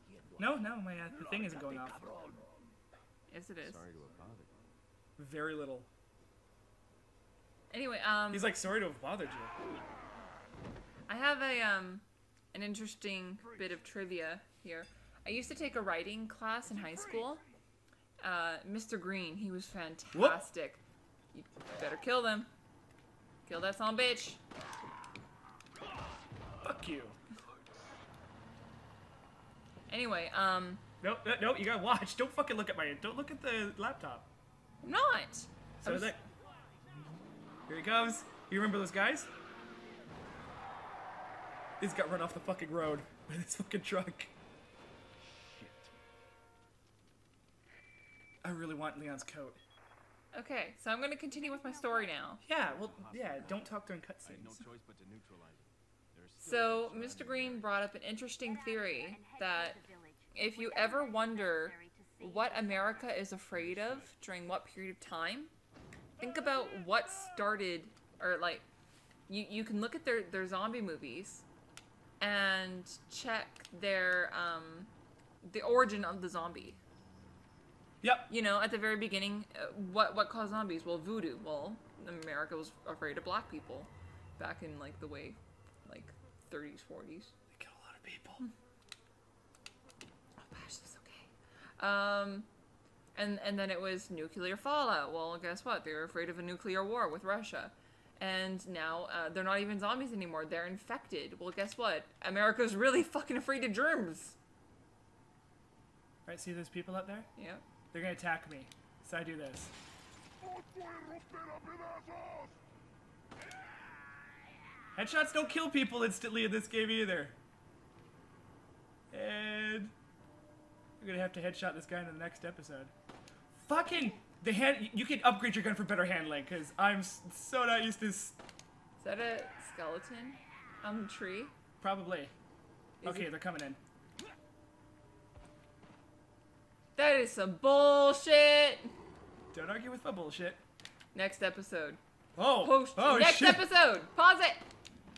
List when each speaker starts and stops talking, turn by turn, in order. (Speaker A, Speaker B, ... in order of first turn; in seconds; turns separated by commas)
Speaker A: 0.4-2.0, Speaker B: 3.3-3.8, Speaker C: 3.6-4.5, Speaker A: 5.2-5.9, Speaker B: 7.7-8.5, Speaker A: 8.3-9.5, Speaker B: 11.1-17.4, Speaker B: 18.2-20.8, Speaker A: 20.1-20.4, Speaker B: 21.3-22.5, Speaker B: 23.4-24.4, Speaker A: 26.6-27.1, Speaker B: 29.9-30.8, Speaker A: 31.0-34.3, Speaker B: 34.8-36.1, Speaker A: 35.8-36.2, Speaker A: 37.7-39.3, Speaker A: 41.8-44.3, Speaker A: 48.4-49.6, Speaker B: 50.3-52.4, Speaker A: 52.4-54.6, Speaker C: 52.9-53.5, Speaker C: 54.2-57.7, Speaker B: 56.4-59.8, Speaker B: 60.3-65.5, Speaker C: 63.5-64.1, Speaker B: 66.2-68.6, Speaker B: 69.3-71.4, Speaker B: 72.2-74.9, Speaker B: 75.4-76.8, Speaker A: 78.0-78.3, Speaker B: 78.3-87.3, Speaker A: 87.5-88.4, Speaker B: 90.4-92.5, Speaker B: 93.1-104.3, Speaker A: 106.2-107.3, Speaker B: 107.3-107.6, Speaker A: 107.9-109.7, Speaker A: 114.9-117.3, Speaker A: 119.1-119.9, Speaker A: 121.0-122.9, Speaker A: 123.5-128.4, Speaker B: 129.0-131.5, Speaker A: 131.8-132.3, Speaker B: 133.0-133.3, Speaker A: 133.0-133.8, Speaker B: 136.9-138.9, Speaker A: 139.5-140.6, Speaker B: 141.1-142.0, Speaker A: 142.4-143.7, Speaker B: 142.5-144.6